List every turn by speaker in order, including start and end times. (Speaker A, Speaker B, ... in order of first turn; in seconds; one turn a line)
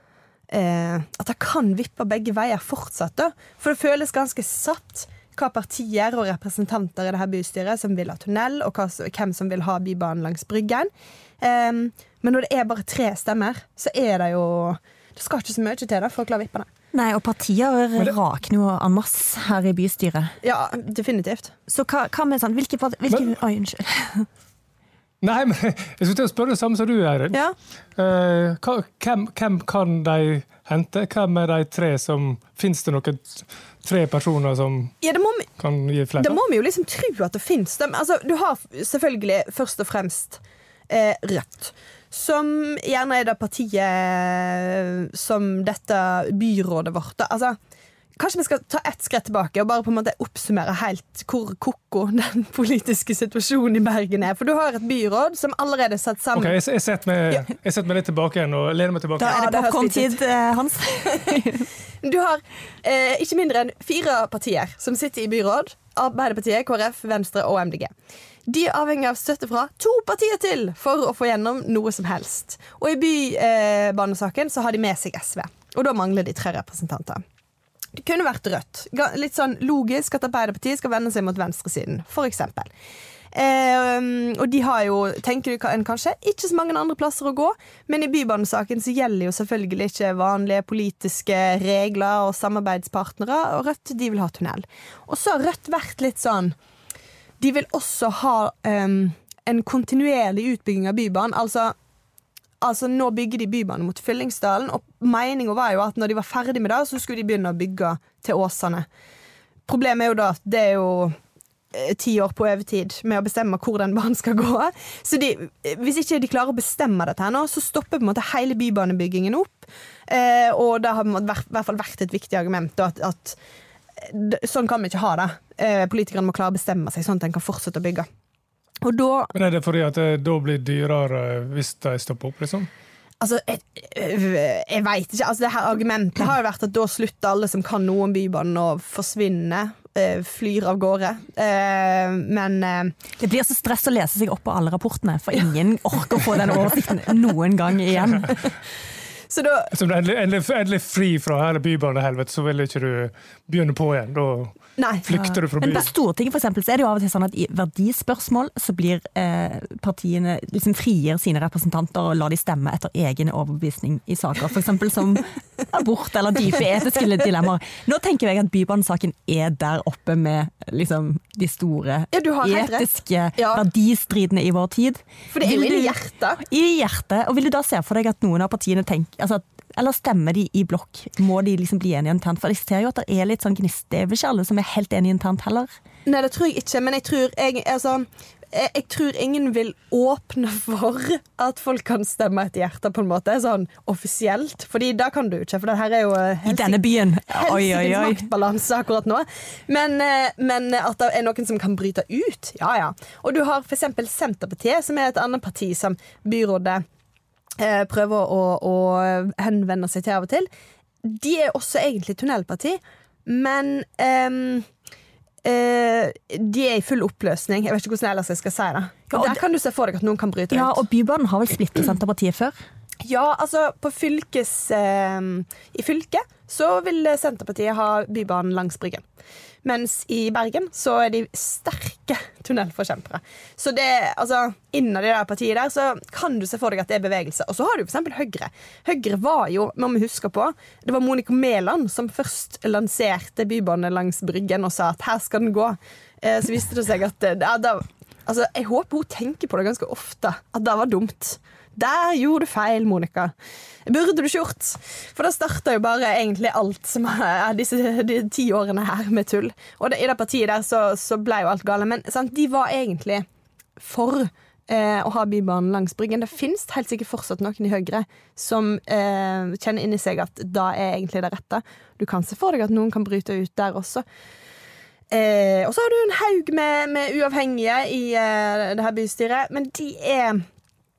Speaker A: 0.5-10.9
Speaker A: 11.4-16.7
Speaker B: 16.9-20.3
Speaker A: 20.4-21.5
Speaker B: 21.7-24.3
Speaker C: 23.1-23.3
Speaker C: 25.2-27.4
Speaker C: 27.9-34.9
Speaker A: 35.0-35.5
Speaker C: 35.6-36.4
Speaker A: 36.2-47.6
Speaker A: 48.2-56.5
Speaker C: 56.3-59.5
Speaker B: 59.2-61.7
Speaker A: 59.2-60.2
Speaker A: 62.0-67.9
Speaker A: 68.5-77.2
Speaker A: 78.0-82.7
Speaker A: 83.3-96.5
Speaker A: 97.4-101.7
Speaker A: 102.6-108.8
Speaker A: 109.7-111.2
Speaker A: 111.7-123.4
Speaker A: 124.0-128.1
Speaker A: 128.8-129.3
Speaker C: 129.3-132.7
Speaker A: 133.2-142.9
Speaker B: 143.2-148.3
Speaker A: 149.3-149.7
Speaker C: 149.7-155.9
Speaker A: 154.8-155.1
Speaker B: 155.1-185.7
Speaker A: 172.1-173.6
Speaker A: 175.3-176.4
Speaker A: 186.1-206.8
Speaker B: 196.4-198.3
Speaker A: 207.6-210.5
Speaker A: 211.0-214.7
Speaker A: 215.4-220.8
Speaker B: 219.1-219.4
Speaker B: 220.5-222.6
Speaker A: 223.0-229.0
Speaker A: 229.6-253.3
Speaker A: 253.8-263.2
Speaker A: 263.8-274.0
Speaker A: 275.1-280.4